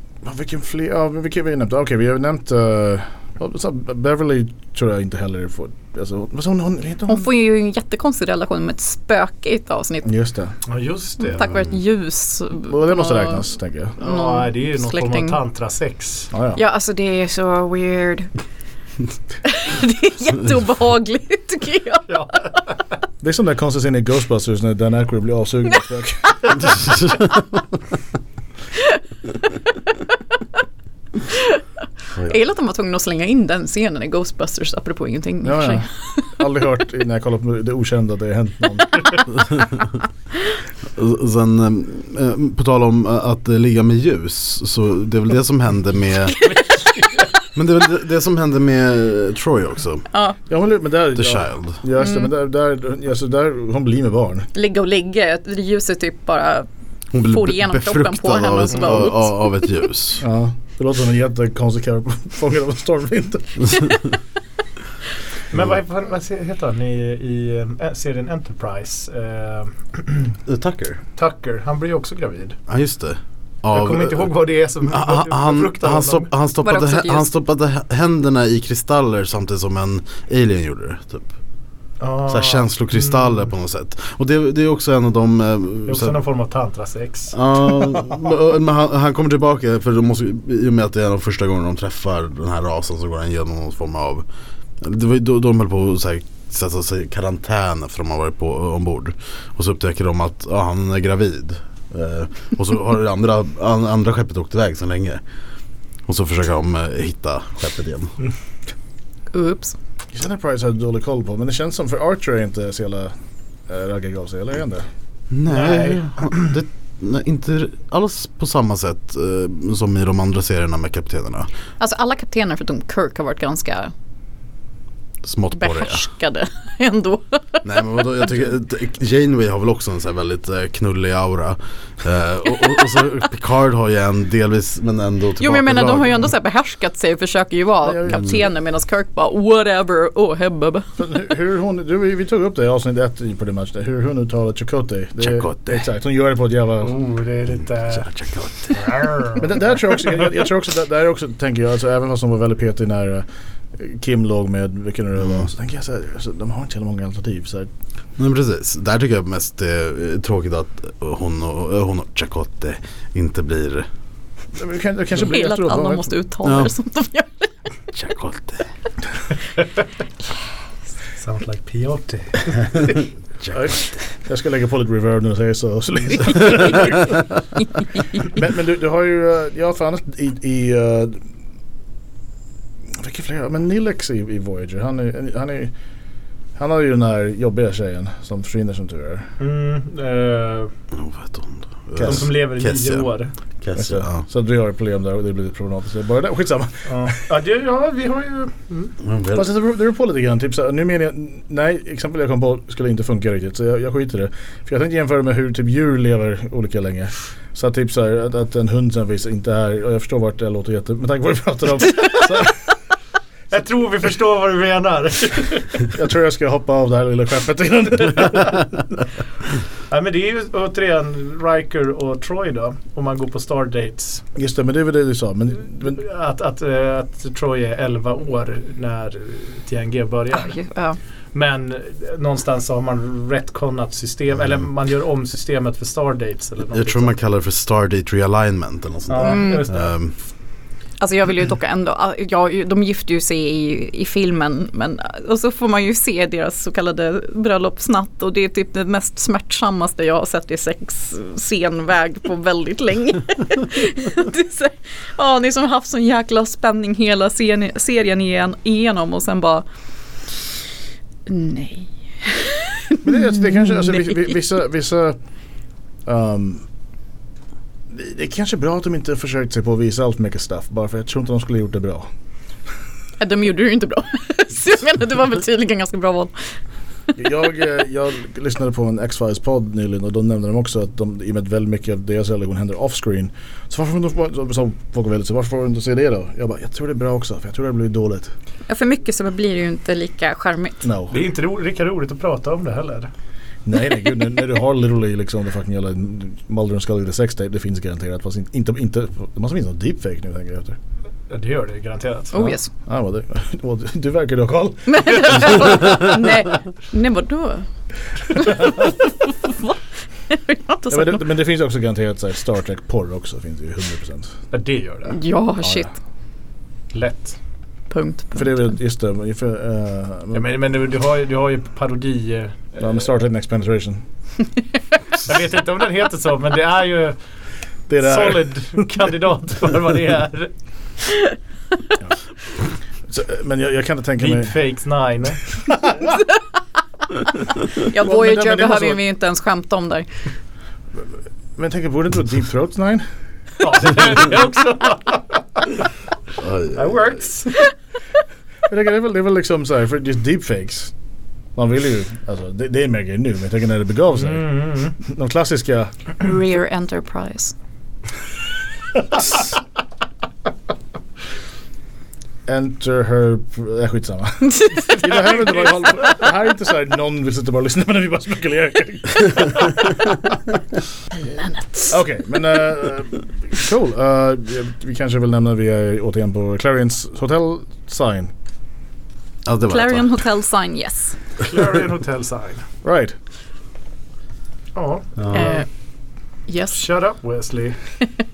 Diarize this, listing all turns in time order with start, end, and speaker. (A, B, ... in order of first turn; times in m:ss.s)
0:00.2-0:07.3 A
0:07.1-0:10.1 B
0:10.0-0:10.5 A
0:10.7-0:11.5 C
0:11.2-0:13.4 B
0:12.7-0:14.0 A
0:14.0-0:16.3 C
0:14.0-0:15.4 B
0:16.3-0:16.6 A
0:16.6-0:18.3 B
0:19.4-0:22.1 B
0:22.1-0:22.5 C
0:23.2-0:26.8 A
0:31.3-0:31.6 B
0:32.2-0:36.3 B
0:35.4-0:39.6 A
0:41.0-0:46.4 D
0:46.4-0:47.3 C
0:47.6-0:50.0 D
0:50.1-0:50.4 B
0:50.5-0:54.5 A
0:51.2-0:51.8 D
0:52.0-0:52.3 B
0:54.5-0:56.7 B
0:57.1-1:00.2 D
0:57.2-0:59.7 B
1:00.2-1:04.0 A
1:05.5-1:10.4 C
1:10.5-1:11.0 D
1:11.2-1:12.6 C
1:12.7-1:14.3 D
1:13.7-1:16.3 C
1:14.9-1:21.3 D
1:16.6-1:17.3 B
1:22.0-1:23.4 C
1:22.3-1:26.2 D
1:25.9-1:27.4 C
1:27.3-1:34.2 D
1:34.8-1:45.2 D
1:46.1-1:48.2 D
1:49.3-1:49.8 B
1:50.1-1:53.1 A
1:53.7-1:54.9 A
1:55.3-2:01.5 D
1:55.5-1:56.1 C
2:01.8-2:03.9 B
2:05.2-2:06.0 D
2:05.6-2:08.0 B
2:07.6-2:16.3 D
2:15.4-2:20.9 B
2:17.8-2:18.4 A
2:21.0-2:27.0 A
2:25.2-2:25.9 D
2:26.8-2:28.1 C
2:27.9-2:28.8 D
2:28.7-2:29.6 C
2:29.4-2:37.7 A
2:38.2-2:43.9 D
2:44.6-2:46.1 A
2:45.2-2:47.5 B
2:46.4-2:46.7 D
2:47.9-2:48.7 D
2:51.2-2:53.0 C
2:53.4-2:53.9 D
2:53.6-2:57.4 A
2:58.2-3:01.2 A
3:03.0-3:05.7 A
3:06.6-3:09.3 A
3:09.4-3:10.7 C
3:10.9-3:13.0 D
3:12.0-3:13.3 C
3:13.6-3:14.2 D
3:13.8-3:17.1 A
3:16.9-3:18.9 C
3:19.0-3:19.5 D
3:19.4-3:32.5 A
3:33.5-3:35.9 C
3:35.9-3:38.9 A
3:39.9-3:44.2 C
3:44.4-3:46.0 A
3:45.9-3:50.6 C
3:50.3-3:51.0 B
3:51.3-3:57.1 C
3:56.7-4:00.1 D
3:59.1-3:59.9 C
3:59.2-3:59.7 B
4:01.0-4:19.6 B
4:21.3-4:23.1 B
4:23.0-4:25.2 A
4:26.1-4:26.6 A
4:27.9-4:32.1 A
4:33.2-4:36.3 B
4:37.2-4:48.3 A
4:48.7-4:50.8 B
4:50.8-4:51.2 A
4:51.1-4:53.1 C
4:53.7-5:00.8 A
5:01.3-5:02.4 C
5:02.3-5:02.7 B
5:02.4-5:05.8 A
5:04.9-5:07.6 B
5:08.3-5:09.8 B
5:10.3-5:11.3 B
5:10.9-5:14.3 A
5:14.5-5:15.2 C
5:15.1-5:15.9 B
5:16.9-5:17.4 C
5:17.9-5:18.7 B
5:18.4-5:20.5 A
5:20.3-5:22.8 C
5:22.8-5:24.0 A
5:25.2-5:27.2 C
5:27.9-5:28.5 A
5:28.0-5:30.5 C
5:33.1-5:34.5 A
5:34.2-5:35.6 C
5:35.7-5:36.2 A
5:37.8-5:40.1 B
5:37.8-5:39.0 A
5:41.6-5:43.0 A
5:43.6-5:45.8 C
5:46.4-5:46.8 D
5:46.7-5:47.7 C
5:48.7-5:50.9 A
5:51.6-5:55.9 A
5:54.1-5:54.9 C
5:56.2-5:57.5 B
6:02.5-6:10.1 A
6:11.2-6:12.0 B
6:11.9-6:18.3 A
6:19.4-6:20.1 D
6:19.7-6:21.2 B
6:21.4-6:22.6 C
6:22.8-6:23.1 A
6:24.8-6:25.6 C
6:25.2-6:25.6 D
6:25.3-6:25.6 B
6:26.5-6:26.8 B
6:26.7-6:27.8 C